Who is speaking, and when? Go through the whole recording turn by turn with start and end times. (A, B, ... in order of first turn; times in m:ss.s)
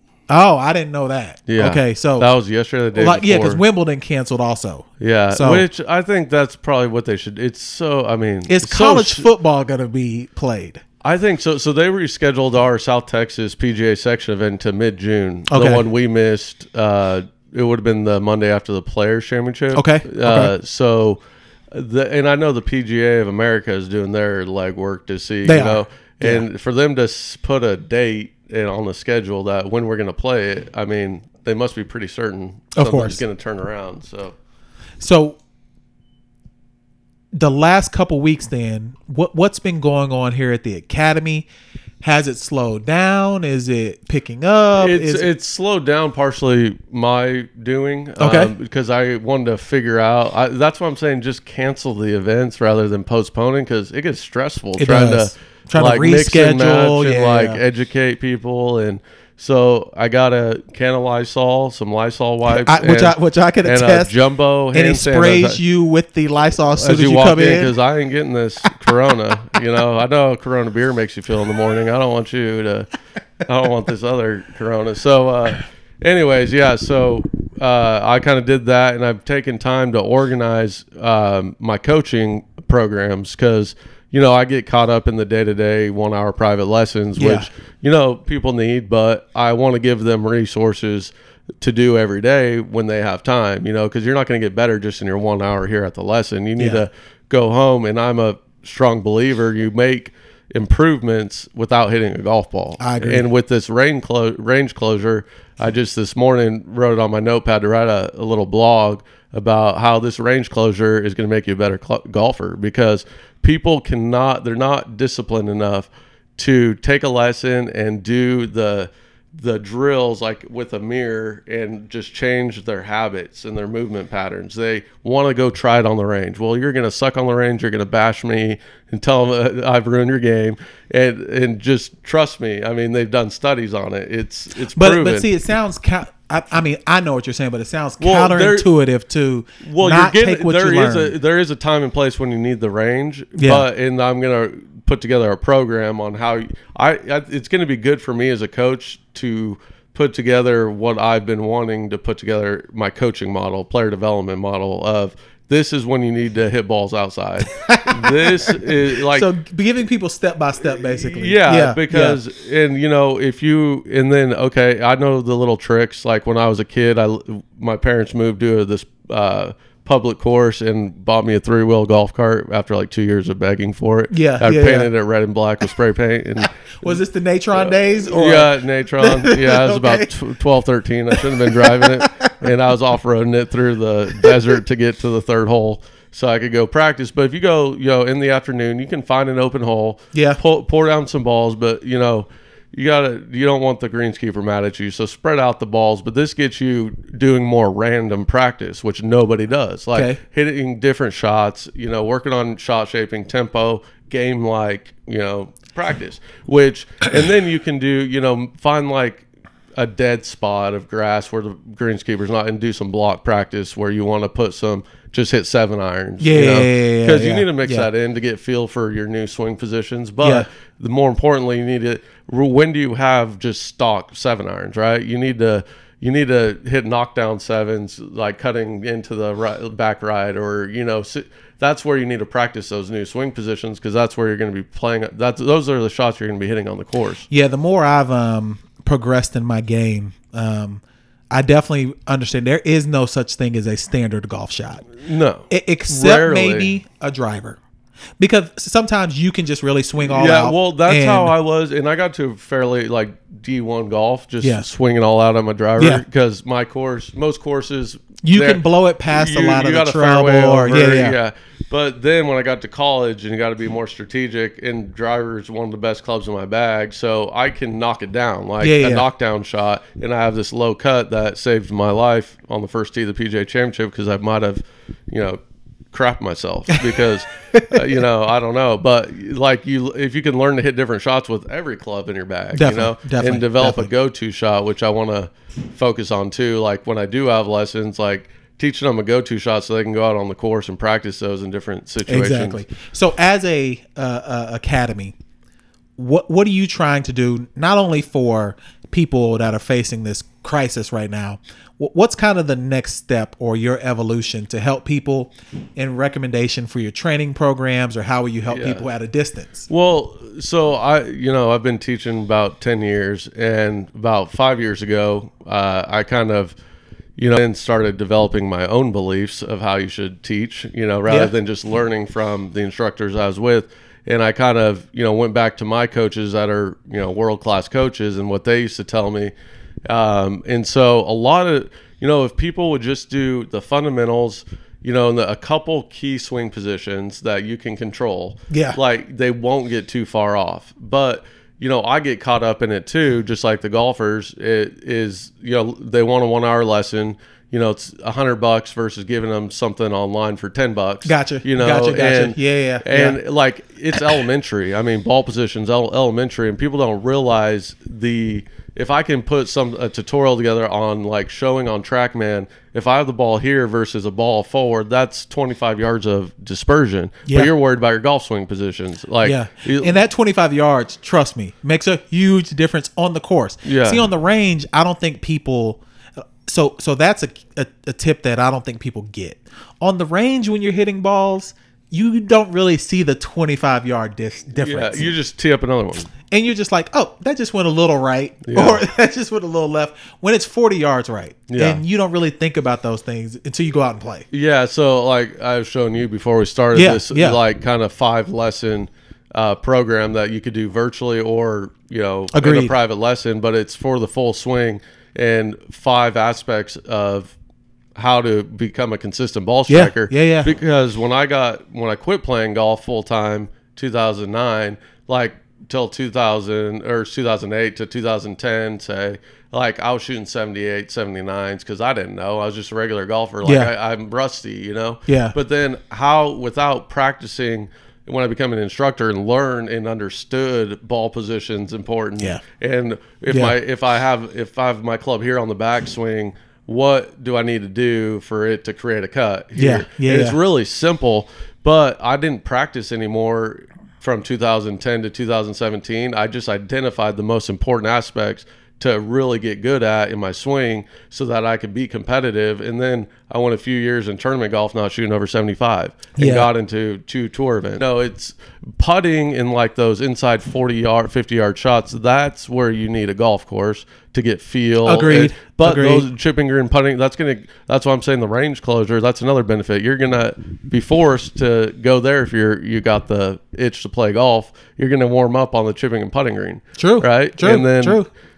0:00.3-0:02.3 A
0:01.5-0:03.6 B
0:02.9-0:05.6 A
0:05.0-0:09.3 B
0:08.5-0:10.8 A
0:11.0-0:21.2 B
0:15.5-0:15.8 A
0:19.7-0:20.5 A
0:21.7-0:34.3 B
0:25.4-0:26.4 A
0:32.8-0:33.2 A
0:35.0-0:35.4 A
0:37.3-0:41.5 A
0:42.0-0:45.3 A
0:44.8-1:05.6 B
0:48.2-0:48.5 A
0:54.8-0:57.6 A
1:02.5-1:04.1 A
1:04.7-1:07.8 A
1:06.7-1:12.9 B
1:13.4-2:15.3 B
1:27.2-1:27.5 A
1:36.6-1:36.8 A
1:42.8-1:43.2 A
2:14.7-2:21.1 A
2:18.0-2:18.7 B
2:19.6-2:39.3 B
2:23.4-2:23.6 A
2:37.5-2:42.2 A
2:40.7-2:57.0 B
2:54.1-2:54.9 A
2:56.8-3:00.1 A
2:57.5-3:57.3 B
3:01.1-3:02.3 A
3:10.1-3:10.4 A
3:19.9-3:20.2 A
3:36.2-3:37.9 A
3:40.2-3:40.5 A
3:57.3-4:04.9 A
4:05.0-4:06.7 B
4:05.5-4:07.6 A
4:08.2-4:11.3 A
4:10.0-4:35.4 B
4:14.4-4:14.7 A
4:15.8-4:16.0 A
4:18.2-4:21.2 A
4:28.6-4:29.0 A
4:35.9-4:52.6 B
4:37.5-4:37.8 A
4:42.5-4:43.9 A
4:52.1-4:55.1 A
4:56.0-5:09.7 A
5:08.5-5:08.8 B
5:09.7-5:16.6 B
5:17.2-5:29.3 B
5:29.9-6:09.9 B
5:38.5-5:38.8 A
5:51.0-5:53.2 A
6:07.2-6:07.5 A
6:09.2-6:15.8 A
6:13.6-6:14.0 B
6:16.4-6:25.1 A
6:24.6-6:26.1 B
6:26.3-6:34.3 A
6:28.4-6:28.8 B
6:31.5-6:31.8 B
6:34.3-6:47.3 B
6:36.7-6:37.4 A
6:42.3-6:42.7 A
6:48.0-7:58.0 B
6:49.7-6:50.5 A
7:03.4-7:03.7 A
7:05.1-7:05.4 A
7:13.3-7:13.5 A
7:19.6-7:20.4 A
7:36.2-7:36.5 A
7:44.8-7:46.0 A
7:56.8-7:58.1 A